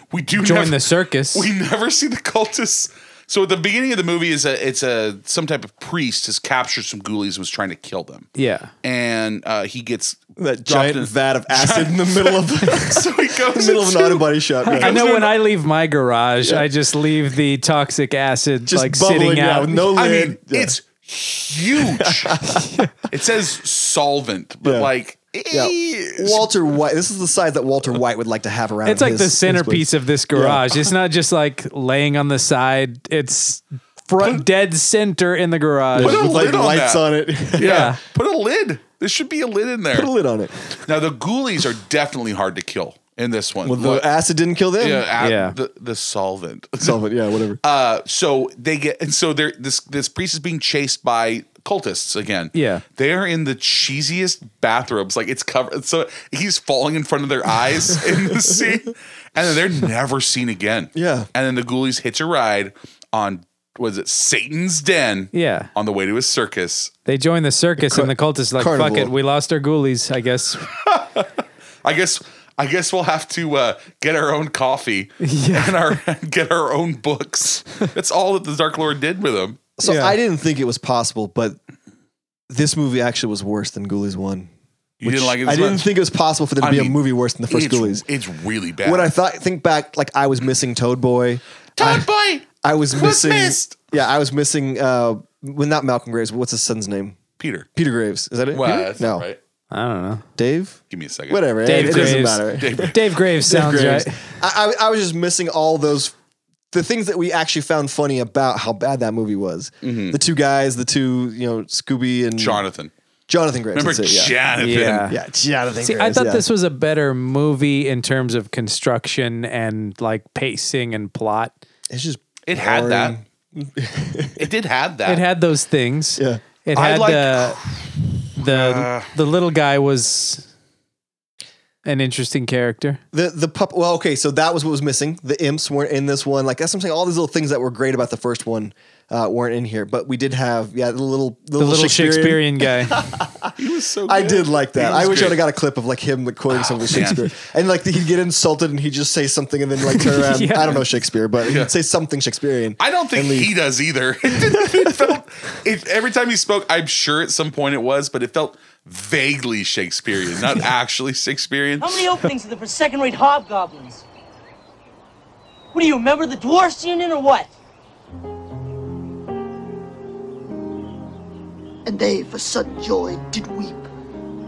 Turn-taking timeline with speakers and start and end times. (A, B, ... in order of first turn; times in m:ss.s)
0:00.1-0:08.3 A
0:00.4-0:01.5 B
0:08.4-0:08.7 B
0:08.8-0:15.3 A
0:10.4-0:15.0 C
0:14.6-0:19.8 B
0:18.7-0:20.7 C
0:19.9-0:22.4 A
0:21.8-0:22.6 C
0:22.5-0:22.9 B
0:23.1-0:26.5 A
0:24.6-0:24.9 C
0:25.5-0:30.6 C
0:28.8-0:36.3 B
0:35.9-0:37.9 C
0:36.0-0:40.1 A
0:37.6-0:38.0 B
0:39.9-0:40.5 C
0:40.8-0:44.1 A
0:43.6-0:45.1 C
0:44.8-0:47.0 A
0:45.2-0:45.6 B
0:46.8-0:47.6 C
0:47.6-1:06.9 A
0:52.5-0:52.8 B
0:58.1-0:58.6 C
1:00.9-1:01.3 C
1:05.3-1:05.7 B
1:07.0-1:10.7 B
1:07.8-1:09.1 C
1:10.9-1:11.2 A
1:11.8-1:19.6 A
1:15.2-1:16.0 B
1:19.8-1:21.6 C
1:19.8-1:20.2 B
1:22.5-1:24.5 C
1:25.0-1:25.8 A
1:25.0-1:28.0 C
1:26.6-1:29.1 A
1:28.8-1:37.2 C
1:31.8-1:33.8 A
1:37.4-1:37.7 A
1:37.7-1:39.2 C
1:38.5-1:39.4 A
1:39.7-1:40.2 B
1:40.4-1:46.1 C
1:40.9-1:43.0 A
1:41.6-1:44.2 B
1:46.7-1:52.6 C
1:49.8-1:50.2 A
1:52.4-1:52.9 A
1:53.3-1:54.4 C
1:53.7-1:55.1 A
1:54.6-1:55.2 B
1:55.0-1:56.4 C
1:55.8-2:01.5 B
2:01.9-2:04.5 C
2:02.4-2:03.2 A
2:04.4-2:05.2 A
2:05.1-2:07.6 B
2:06.2-2:06.4 C
2:06.7-2:09.1 A
2:08.4-2:10.5 B
2:11.8-2:13.0 B
2:13.1-2:23.5 C
2:21.6-2:23.0 B
2:23.6-2:25.4 A
2:24.1-2:33.5 C
2:26.5-2:27.2 A
2:30.0-2:30.8 B
2:31.4-2:31.7 A
2:32.8-2:42.0 A
2:34.4-2:35.2 C
2:41.8-2:44.0 D
2:45.7-2:47.5 D
2:51.8-2:53.9 E